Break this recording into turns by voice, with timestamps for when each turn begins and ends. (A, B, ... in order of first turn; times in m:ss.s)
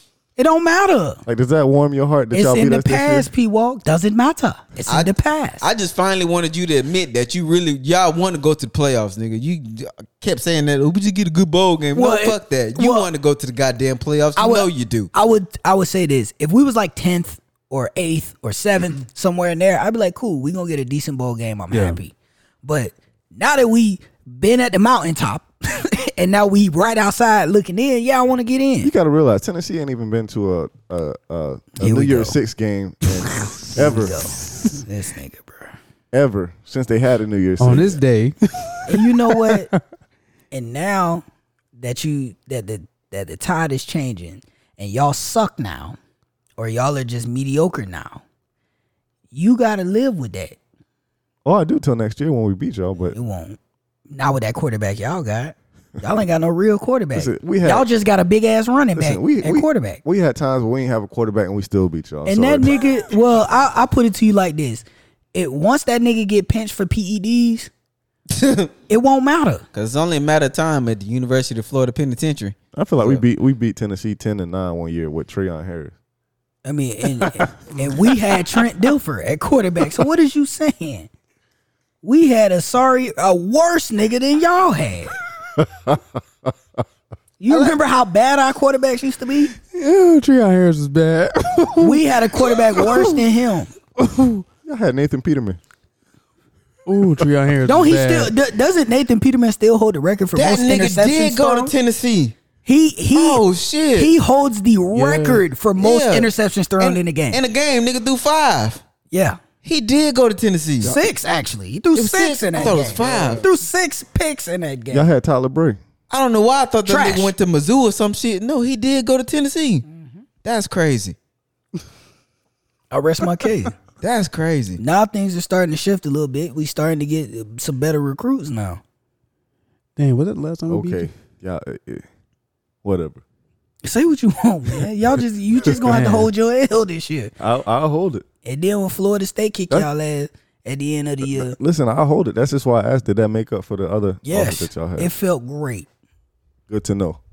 0:00.4-0:01.2 A
0:01.2-0:03.3 B
0:02.3-0:05.6 A
0:04.9-0:15.1 C
0:11.9-0:13.1 A
0:14.4-0:28.9 A
0:21.7-0:22.0 D
0:28.8-0:34.3 B
0:31.8-0:32.4 A
0:33.7-0:35.7 A
0:36.1-0:38.0 B
0:37.6-0:39.8 D
0:38.9-0:39.7 A
0:40.5-0:41.2 A
0:41.8-0:46.0 A
0:46.6-0:48.2 A
0:49.3-0:50.6 A
0:51.4-0:53.2 B
0:53.1-0:53.6 A
0:54.1-1:00.0 A
0:57.1-0:57.9 B
0:59.0-1:02.8 B
1:02.2-1:07.7 A
1:08.3-1:08.7 C
1:08.9-1:09.6 A
1:09.7-1:13.2 C
1:12.7-1:15.9 B
1:16.6-1:21.1 A
1:22.0-1:25.2 A
1:25.6-1:26.5 B
1:27.4-1:29.5 A
1:29.7-1:32.0 D
1:31.8-1:33.7 A
1:32.5-1:33.1 D
1:34.0-1:35.6 B
1:36.8-1:38.3 D
1:37.6-1:41.7 A
1:40.3-1:42.3 C
1:42.6-1:43.4 A
1:43.1-1:44.1 C
1:43.9-1:47.4 A
1:44.9-1:45.4 D
1:45.8-1:48.8 C
1:49.1-1:49.4 A
1:49.6-1:50.9 C
1:50.8-1:55.1 A
1:51.9-1:53.4 C
1:52.6-1:53.4 D
1:54.9-1:55.8 B
1:56.1-1:59.8 C
1:56.8-1:57.3 A
1:59.9-2:00.2 A
2:00.4-2:01.2 C
2:02.9-2:03.7 A
2:04.0-2:04.8 C
2:04.8-2:08.8 A
2:10.0-2:11.1 D
2:10.7-2:12.0 B
2:12.8-2:13.2 B
2:13.8-2:17.3 A
2:15.6-2:15.9 B
2:15.8-2:16.3 D
2:17.4-2:18.2 B
2:18.4-2:21.6 A
2:21.2-2:25.1 B
2:24.2-2:25.9 A
2:26.7-2:27.2 B